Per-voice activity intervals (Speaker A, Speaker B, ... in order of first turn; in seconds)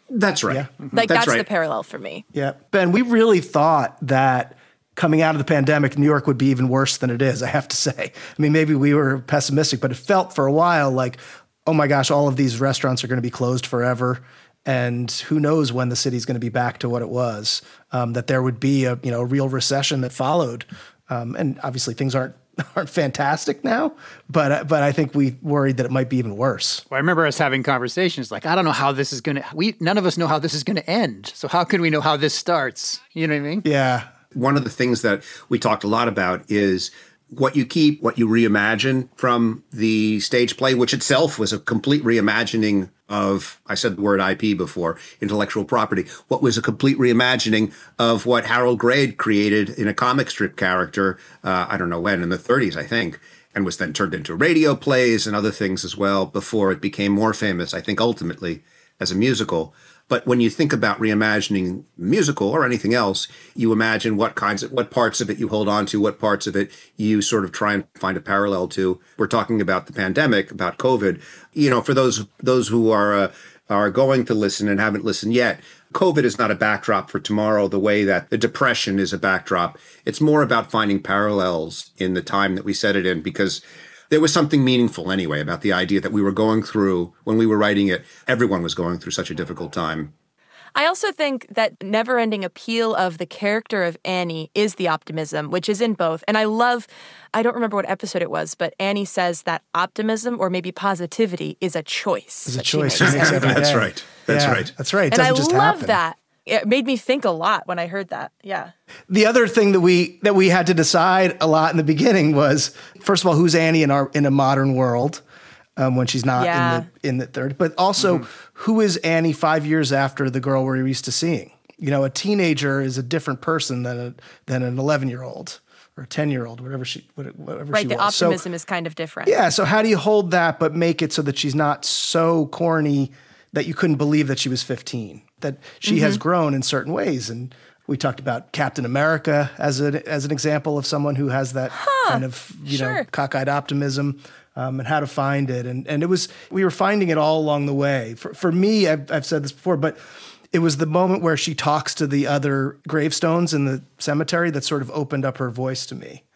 Speaker A: 0.1-1.5, 34.3-90.1, 103.0-104.7
Speaker B: 0.9-2.2, 90.7-103.7, 105.1-108.7, 116.4-116.9, 127.7-129.4, 135.8-136.2, 141.7-143.0
Speaker C: 2.3-26.8, 33.6-34.1, 102.5-106.0, 109.1-115.2, 115.8-128.4, 129.2-150.0, 150.5-156.2
Speaker D: 26.9-33.6, 118.0-118.2